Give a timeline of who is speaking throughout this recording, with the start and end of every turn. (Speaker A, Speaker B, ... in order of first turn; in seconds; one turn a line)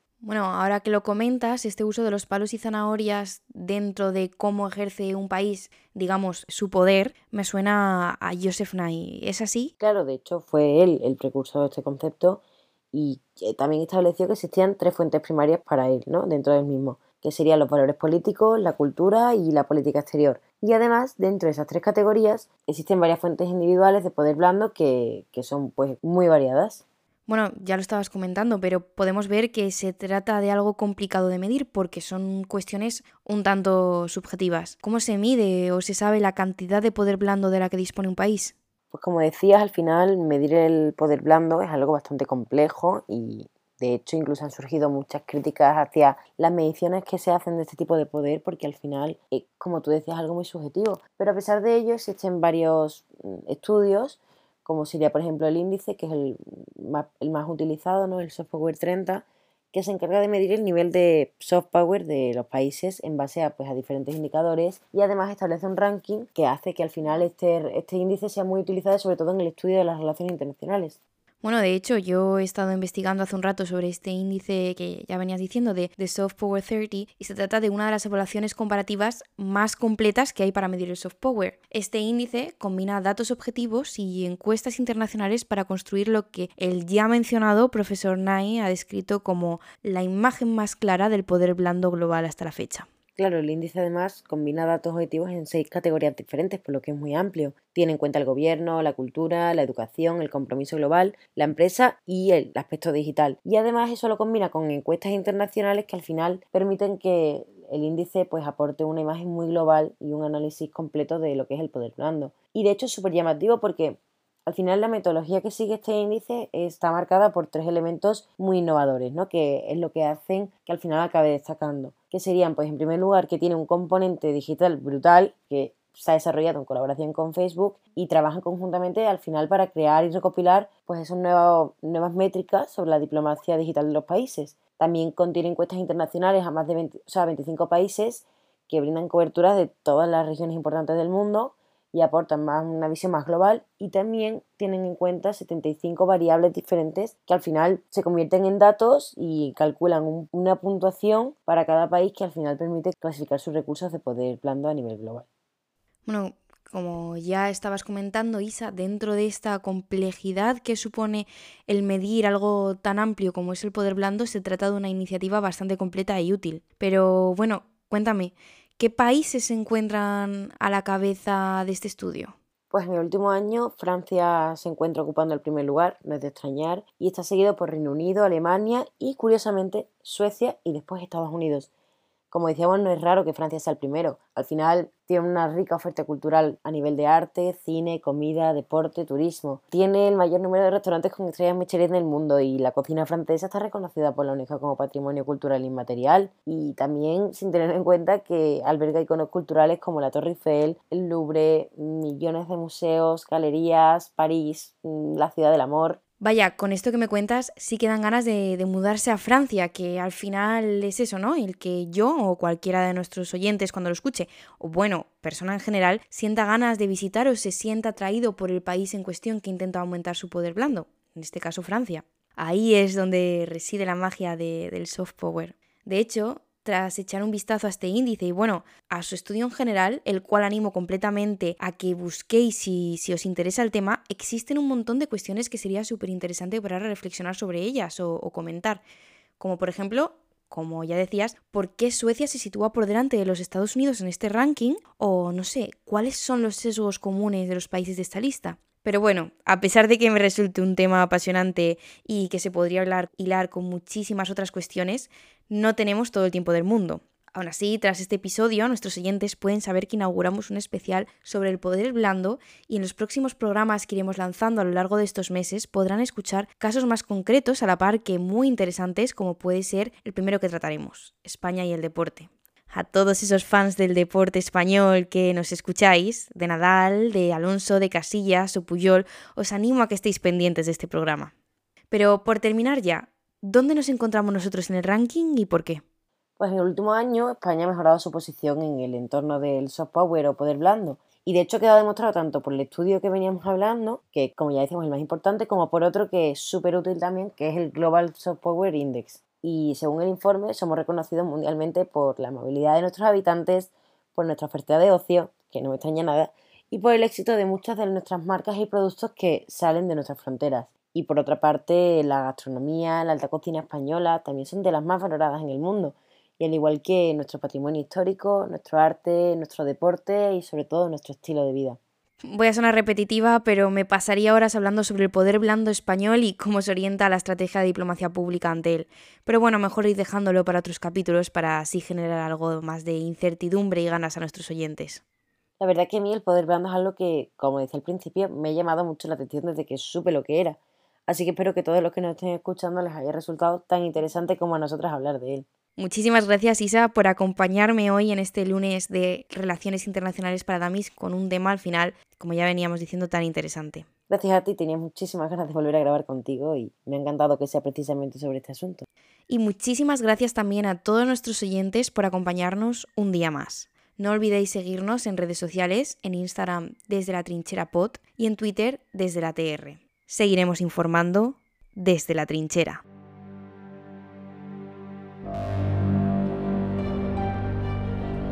Speaker A: 0.2-9.7
Speaker B: 9.8-12.4
Speaker B: 12.9-26.8
Speaker A: 27.3-38.5
Speaker B: 38.9-71.0
Speaker A: 71.4-92.9
Speaker B: 93.2-155.2
Speaker A: 156.1-172.3
Speaker B: 172.7-181.7
Speaker B: 182.3-206.0
Speaker A: 206.2-238.8
Speaker A: 239.4-281.3
Speaker A: 281.9-285.8
Speaker B: 286.4-321.8
Speaker A: 322.2-335.0
Speaker B: 335.6-345.4
Speaker A: 345.8-353.9
Speaker B: 354.1-358.9
Speaker A: 359.3-372.8